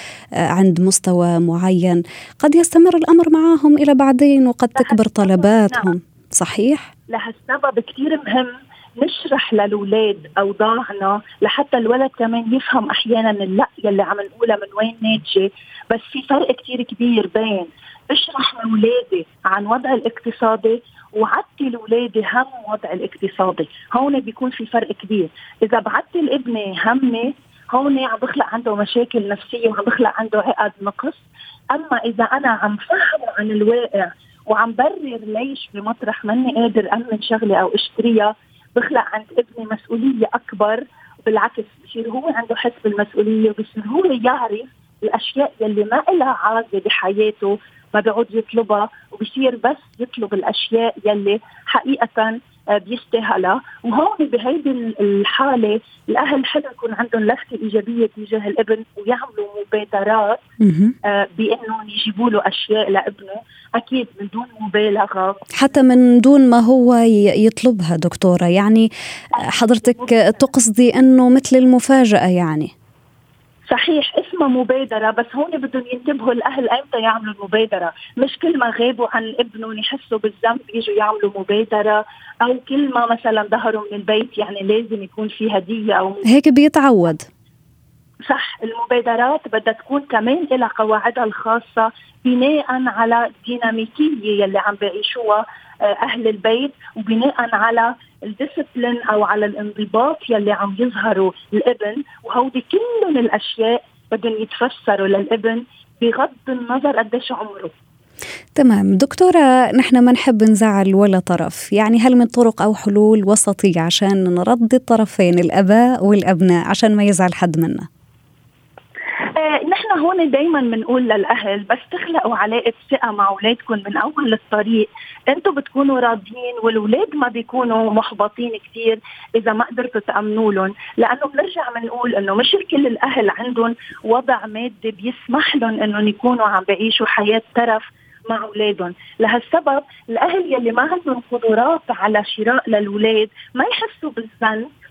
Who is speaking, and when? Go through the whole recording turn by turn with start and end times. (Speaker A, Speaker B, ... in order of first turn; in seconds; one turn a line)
Speaker A: 0.5-6.9
Speaker B: 4.8-5.9
Speaker B: 7.1-60.4
Speaker A: 60.6-61.0
Speaker B: 61.0-65.4
Speaker A: 65.5-68.9
Speaker B: 69.3-70.4
Speaker A: 69.4-72.7
Speaker B: 73.7-86.2
Speaker A: 86.2-87.3
Speaker B: 88.2-107.7
Speaker A: 108.5-117.9
Speaker B: 119.3-144.7